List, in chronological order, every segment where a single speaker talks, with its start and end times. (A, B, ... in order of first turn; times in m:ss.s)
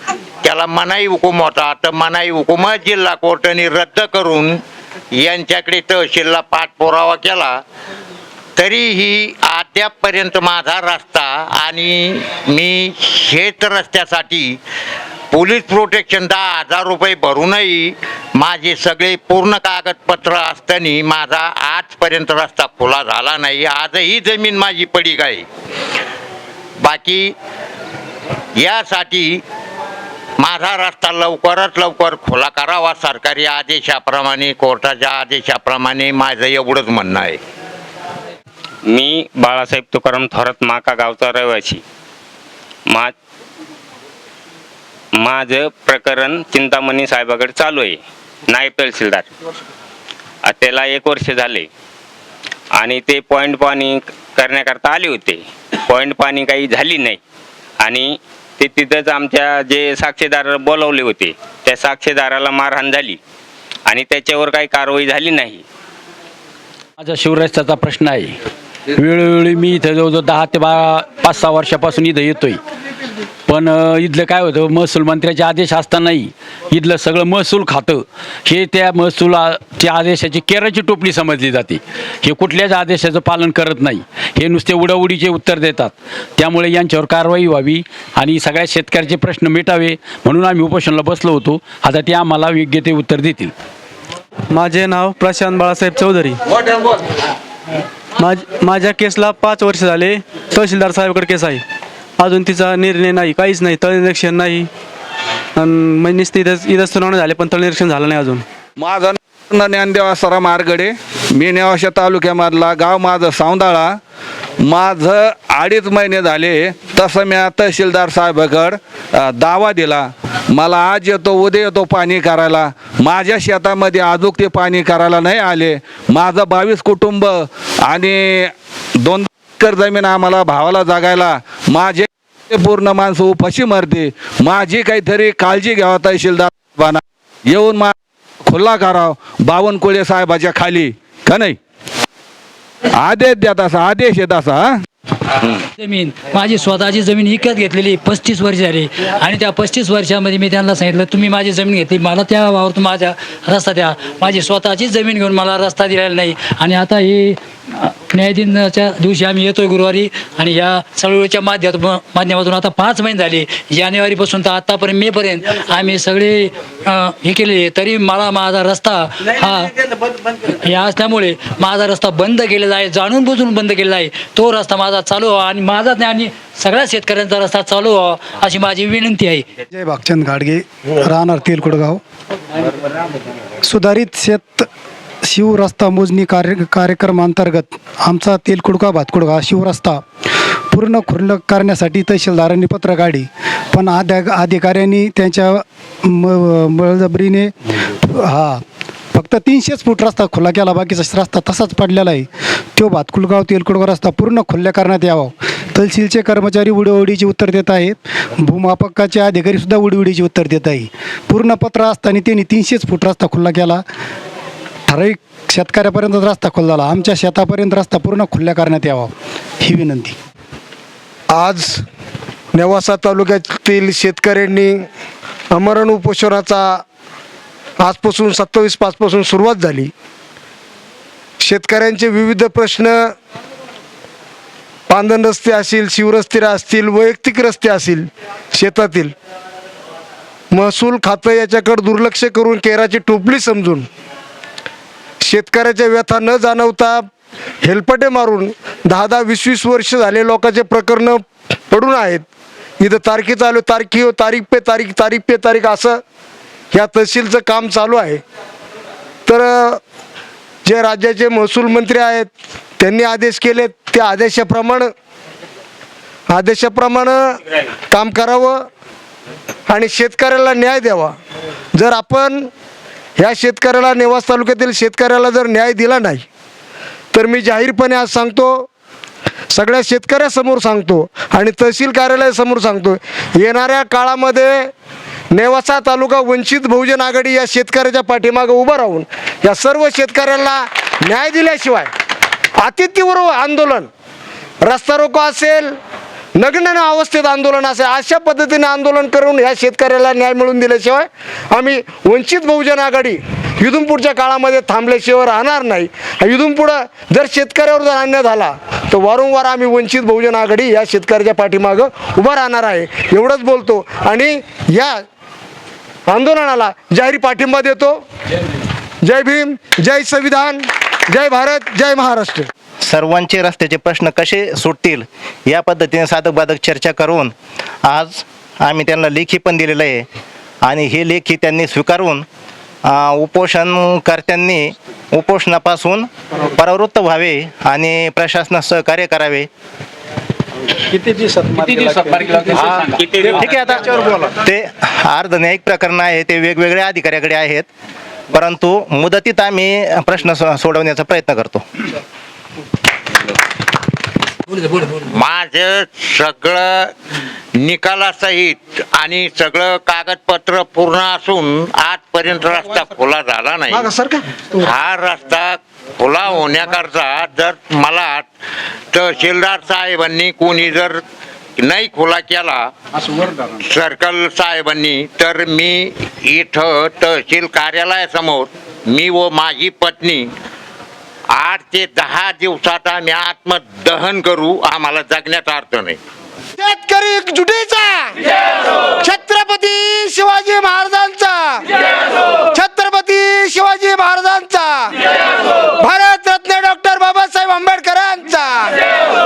0:00.4-0:04.6 A
0:05.1-0:07.6 A
0:08.6-0:14.5 A
0:15.3-0:25.4 A
0:26.8-0:27.3 A
0:28.6-0:29.4 A
0:30.4-0:37.4 A
0:38.8-0:41.8 B
0:42.9-0:43.1 B
0:45.1-0:49.3 B
0:50.4-0:51.7 B
0:52.7-0:57.2 B
0:57.8-1:03.2 B
1:03.9-1:05.6 B
1:07.0-1:08.4 C
1:09.0-1:12.6 C
1:13.5-1:33.5 C
1:34.5-1:36.4 D
1:38.2-1:41.6 D
1:42.2-1:44.7 D
1:45.6-1:48.4 D
1:48.8-1:54.0 E
1:54.6-2:08.5 E
2:09.0-2:17.9 E
2:18.5-2:21.6 E
2:23.0-2:24.8 E
2:25.8-2:49.7 F
2:50.3-2:59.5 F
2:59.8-3:02.0 G
3:03.6-3:04.7 G
3:05.2-3:10.0 G
3:10.7-3:18.6 G
3:19.1-3:22.3 G
3:22.8-3:33.8 G
3:34.9-3:40.2 G
3:41.3-3:41.8 H
3:42.6-3:44.8 H
3:45.5-3:46.8 H
3:47.8-3:49.9 H
3:51.4-3:53.2 H
3:54.9-3:59.1 H
4:00.5-4:03.9 H
4:05.2-4:07.0 H
4:07.6-4:12.2 H
4:12.8-4:16.0 H
4:16.7-4:18.2 H
4:19.3-4:19.8 H
4:20.6-4:24.9 H
4:26.3-4:28.7 H
4:29.7-4:31.2 H
4:31.8-4:32.5 H
4:33.2-4:36.2 H
4:37.1-4:38.7 H
4:39.5-4:44.7 H
4:45.3-4:51.9 H
4:52.6-4:53.9 H
4:54.6-4:55.8 H
4:56.4-5:15.0 H
5:16.1-5:18.0 H
5:19.0-5:22.5 H
5:22.8-5:27.3 I
5:27.8-5:30.1 I
5:30.6-5:32.3 I
5:32.8-5:39.5 I
5:41.7-5:44.2 B
5:43.4-5:47.7 I
5:48.3-5:51.6 I
5:54.7-5:56.9 A
5:57.6-6:03.9 A
6:03.7-6:04.4 H
6:04.6-6:08.3 A
6:08.9-6:11.0 A
6:11.6-6:12.6 A
6:13.5-6:20.3 A
6:21.4-6:26.0 A
6:26.6-6:28.2 H
6:29.0-6:31.6 H
6:32.5-6:35.0 H
6:35.8-6:38.8 H